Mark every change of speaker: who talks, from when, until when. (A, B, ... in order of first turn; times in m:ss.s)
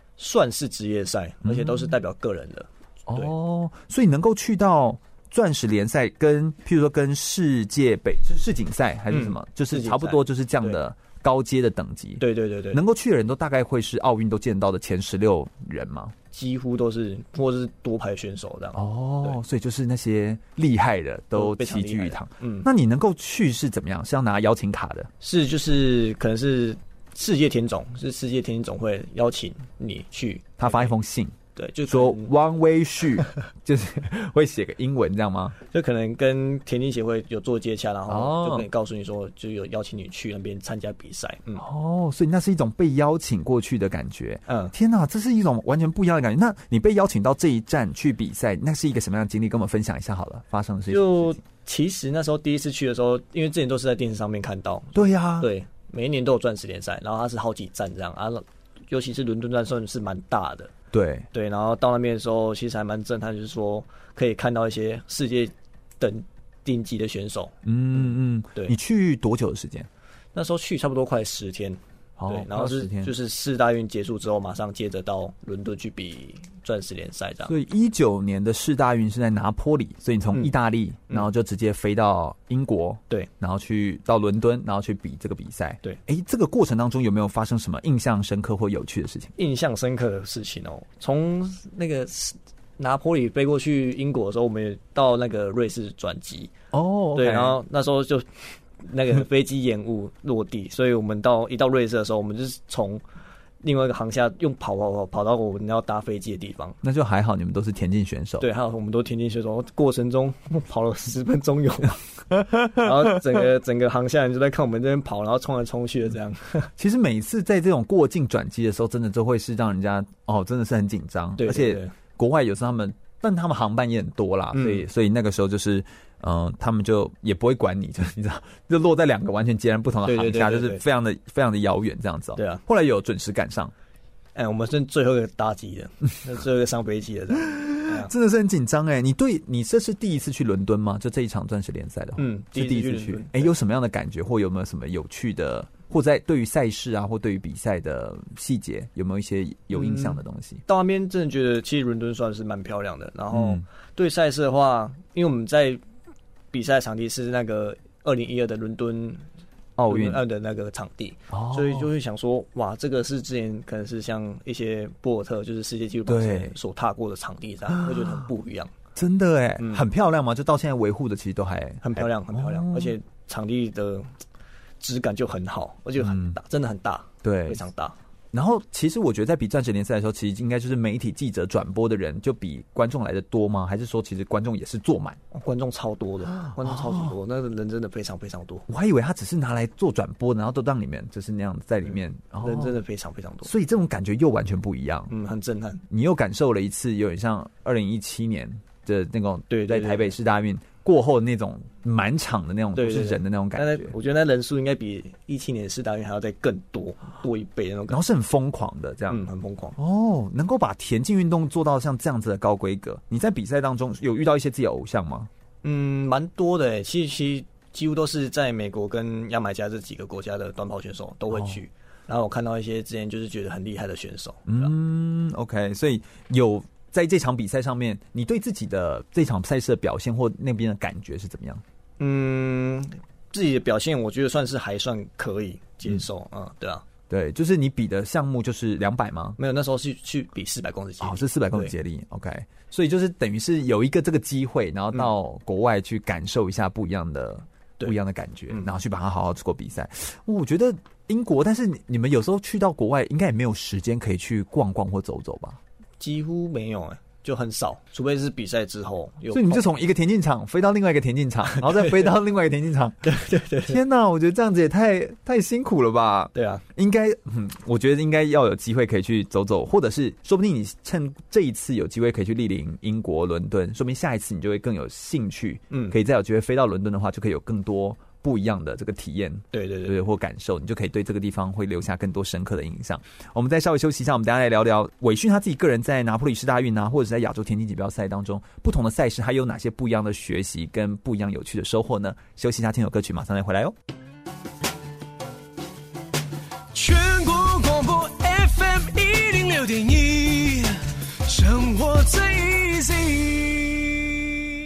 0:00.2-0:03.3 A
0:01.4-0:01.9 B
0:03.1-0:16.1 B
0:09.1-0:10.8 A
0:12.2-0:12.8 A
0:16.3-0:19.4 A
0:18.7-0:25.1 B
0:21.3-0:22.7 A
0:25.2-0:30.9 A
0:30.6-0:31.4 B
0:31.5-0:32.3 A
0:31.9-0:35.6 B
0:35.7-0:41.6 A
0:38.1-0:38.7 B
0:41.6-0:51.4 B
0:44.5-0:44.7 A
0:50.9-1:00.7 A
0:54.9-0:55.5 B
1:00.9-1:01.3 B
1:01.3-1:07.5 A
1:07.6-1:09.9 B
1:10.4-1:17.5 A
1:12.2-1:13.1 B
1:17.4-1:29.3 B
1:29.4-1:36.5 A
1:36.7-1:37.6 B
1:37.1-1:38.3 A
1:38.8-1:43.0 A
1:43.6-1:46.8 A
1:46.8-1:48.4 B
1:48.4-1:52.0 A
1:52.6-1:56.7 A
1:56.8-2:13.7 B
2:01.4-2:01.9 A
2:04.5-2:04.8 A
2:10.0-2:10.8 A
2:12.4-2:12.6 A
2:14.4-2:18.1 A
2:17.5-2:30.6 B
2:22.2-2:23.6 A
2:29.7-2:35.8 A
2:33.3-2:33.6 B
2:36.5-2:39.2 A
2:39.8-2:40.2 B
2:39.9-2:48.7 A
2:41.3-2:41.9 B
2:46.1-2:46.6 B
2:47.7-2:48.2 B
2:48.9-2:52.9 B
2:49.6-2:49.8 A
2:51.8-2:54.1 A
2:54.8-2:58.0 A
2:56.0-2:56.4 B
2:57.2-2:57.6 B
2:58.3-3:05.2 B
3:05.3-3:08.6 A
3:06.2-3:07.1 B
3:08.7-3:12.8 B
3:12.4-3:13.5 A
3:13.4-3:15.1 B
3:15.1-3:15.8 A
3:15.9-3:23.9 B
3:19.5-3:20.2 A
3:22.7-3:28.0 A
3:27.9-3:35.3 B
3:29.1-3:29.8 A
3:35.6-3:44.7 A
3:41.3-3:41.6 B
3:44.5-3:51.6 B
3:52.0-3:56.8 A
3:57.1-3:59.4 B
3:59.4-4:01.7 A
4:01.0-4:15.6 B
4:16.0-4:19.7 A
4:19.3-4:23.1 B
4:21.5-4:22.1 A
4:23.0-4:23.8 A
4:23.6-4:53.7 B
4:26.3-4:26.6 A
4:35.7-4:36.0 A
4:39.5-4:40.0 A
4:56.7-5:04.4 C